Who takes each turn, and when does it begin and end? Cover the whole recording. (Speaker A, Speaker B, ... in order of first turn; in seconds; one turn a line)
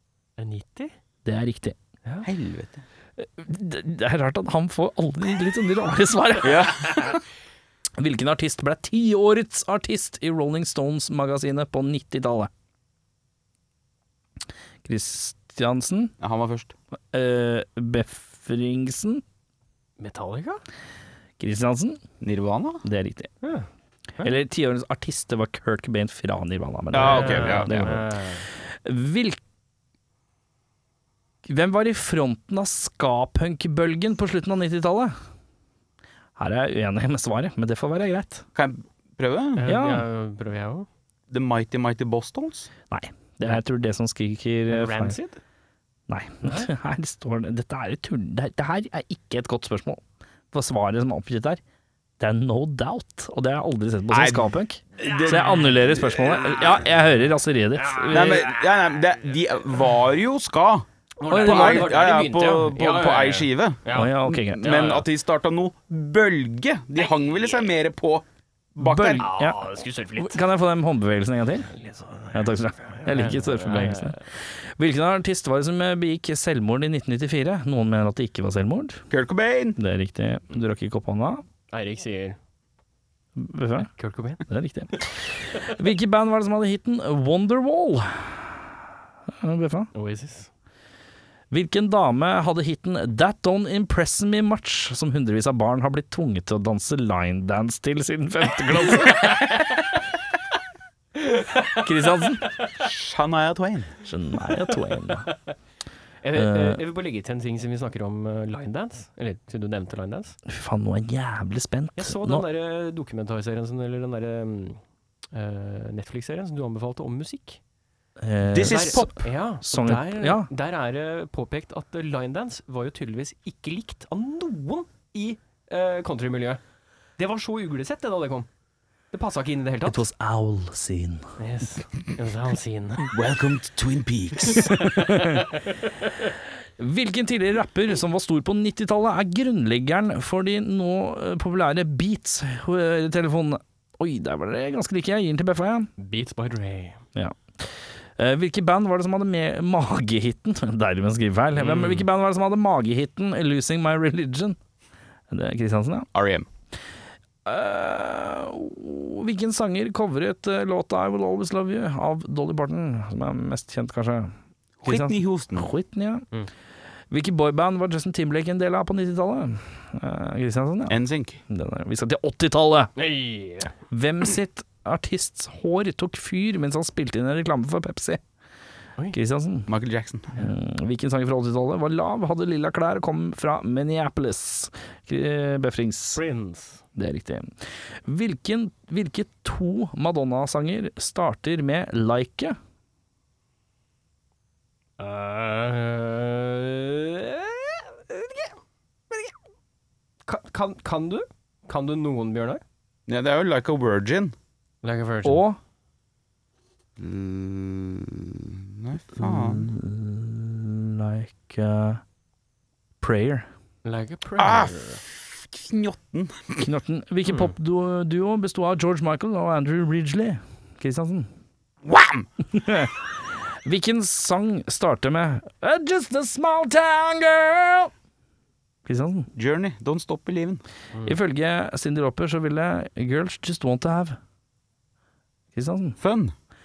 Speaker A: 0.4-0.9
Speaker B: 1.2-1.8
Speaker C: 2.2-2.8
Speaker B: 3.2-7.1
Speaker C: 6.4-7.2
Speaker B: 8.0-12.5
Speaker B: 14.8-16.1
Speaker C: 16.2-16.7
Speaker B: 17.1-19.2
Speaker A: 20.0-20.6
Speaker B: 21.4-22.0
Speaker C: 22.2-22.8
Speaker B: 22.8-23.3
Speaker A: 23.4-23.7
Speaker B: 24.2-29.4
Speaker C: 26.9-27.9
Speaker A: 27.0-28.4
Speaker B: 31.4-35.1
Speaker B: 36.4-38.4
Speaker C: 38.5-39.7
Speaker A: 39.6-40.9
Speaker B: 39.6-40.0
Speaker C: 41.3-42.7
Speaker B: 42.9-45.2
Speaker A: 44.7-45.4
Speaker B: 46.1-51.6
Speaker B: 52.2-58.5
Speaker C: 54.1-55.7
Speaker A: 55.1-55.7
Speaker A: 57.8-58.8
Speaker C: 58.1-68.2
Speaker A: 61.2-65.0
Speaker B: 61.3-61.9
Speaker B: 63.9-65.0
Speaker A: 67.0-67.7
Speaker C: 68.8-69.3
Speaker B: 68.8-69.6
Speaker A: 69.2-70.4
Speaker B: 70.2-71.7
Speaker A: 71.7-74.3
Speaker B: 72.3-79.0
Speaker C: 79.1-79.8
Speaker B: 79.8-81.4
Speaker A: 81.7-82.4
Speaker B: 83.3-83.9
Speaker A: 83.9-84.4
Speaker B: 84.5-88.7
Speaker B: 89.3-89.9
Speaker A: 89.9-90.5
Speaker B: 91.5-99.5
Speaker A: 99.2-99.5
Speaker A: 101.2-101.8
Speaker B: 101.8-102.4
Speaker C: 102.8-103.9
Speaker B: 104.0-105.3
Speaker A: 105.2-105.5
Speaker A: 106.2-110.4
Speaker B: 106.3-106.8
Speaker B: 110.5-112.4
Speaker A: 112.0-117.6
Speaker B: 118.2-120.5
Speaker C: 118.5-119.1
Speaker A: 118.6-126.6
Speaker A: 127.2-128.5
Speaker A: 129.1-130.1
Speaker B: 129.8-131.2
Speaker A: 131.4-133.1
Speaker C: 133.1-134.8
Speaker B: 134.7-135.4
Speaker A: 135.0-135.4
Speaker B: 136.8-145.9
Speaker A: 146.0-147.0
Speaker B: 147.1-154.6
Speaker A: 151.5-152.1
Speaker B: 155.3-156.1
Speaker C: 156.1-156.4
Speaker B: 157.4-164.3
Speaker C: 164.8-165.7
Speaker B: 164.8-166.2
Speaker B: 167.1-172.9
Speaker C: 170.9-171.4
Speaker A: 172.9-173.7
Speaker B: 173.9-178.2
Speaker B: 179.1-179.7
Speaker C: 179.7-180.4
Speaker B: 180.4-186.2
Speaker A: 186.1-186.8
Speaker B: 186.9-192.6
Speaker A: 195.0-198.5
Speaker A: 200.2-202.6
Speaker C: 203.1-204.3
Speaker A: 204.8-205.4
Speaker B: 205.2-205.6
Speaker C: 207.0-209.7
Speaker B: 209.2-212.0
Speaker B: 213.0-213.5
Speaker A: 213.8-215.0
Speaker C: 214.4-216.7
Speaker B: 216.6-221.3
Speaker C: 221.8-222.3
Speaker B: 222.5-222.9
Speaker B: 223.6-227.9
Speaker B: 228.8-229.3
Speaker C: 229.3-230.6
Speaker B: 231.0-234.2
Speaker B: 235.5-236.0
Speaker C: 236.0-236.3